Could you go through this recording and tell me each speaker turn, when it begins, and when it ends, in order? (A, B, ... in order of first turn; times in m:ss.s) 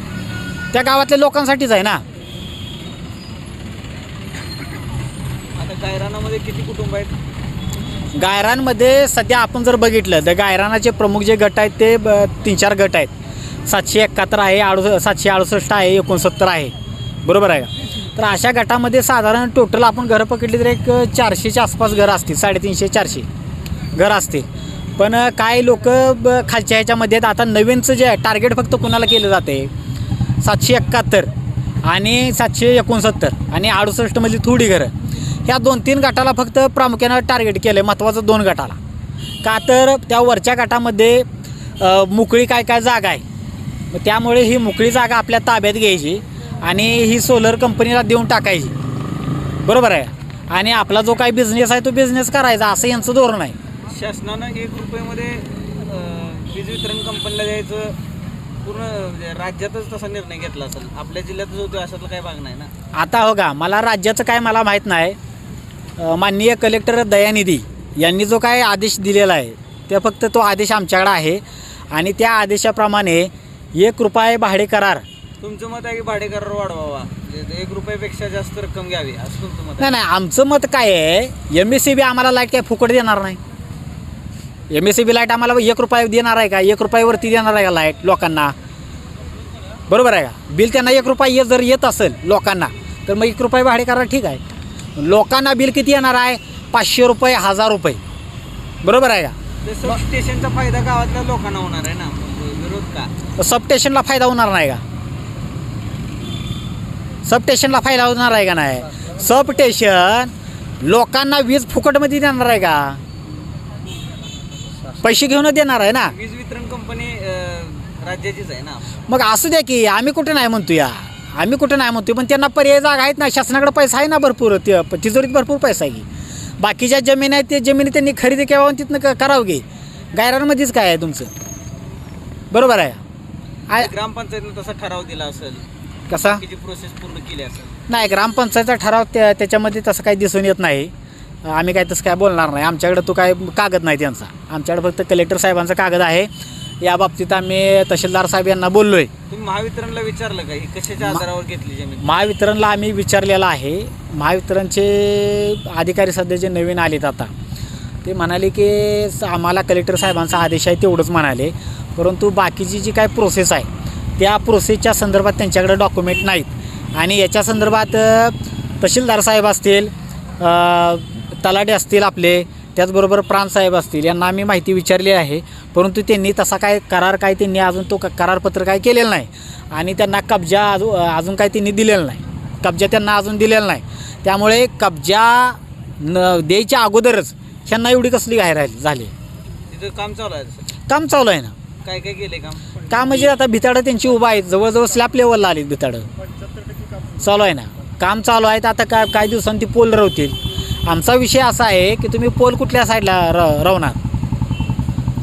0:00.7-0:02.0 A
0:05.6-0:07.1 B
0:08.1-0:13.1 A
0:13.7-0:16.7 A
0:17.2-0:23.3 A
0:24.0-0:29.7 A
0:30.4-0:31.3 A
0:31.8-0:34.9 A
0:35.4-0:38.8 A
0:39.4-0:41.3 A
0:41.8-0:43.2 A
0:43.9-0:48.7 A
0:49.6-0:53.6 A
0:53.9-0:58.0 B
0:58.6-1:02.7 B
1:02.9-1:05.2 A
1:06.0-1:15.0 A
1:15.4-1:20.0 B
1:19.8-1:23.4 A
1:24.7-1:28.5 A
1:29.9-1:38.0 A
1:38.8-1:39.3 A
1:39.6-1:43.1 B
1:43.4-1:44.8 A
1:47.2-1:53.0 A
1:55.0-1:56.1 A
1:56.0-1:58.8 B
1:59.1-2:06.0 A
2:06.6-2:11.3 A
2:12.5-2:13.0 A
2:13.8-2:17.8 B
2:16.1-2:16.4 A
2:17.9-2:20.9 A
2:21.4-2:26.3 A
2:26.8-2:29.1 A
2:29.3-2:32.2 B
2:32.0-2:37.3 A
2:38.0-3:09.1 A
3:09.7-3:10.7 B
3:10.9-3:11.5 A
3:11.8-3:12.8 B
3:12.9-3:16.1 A
3:17.2-3:24.0 A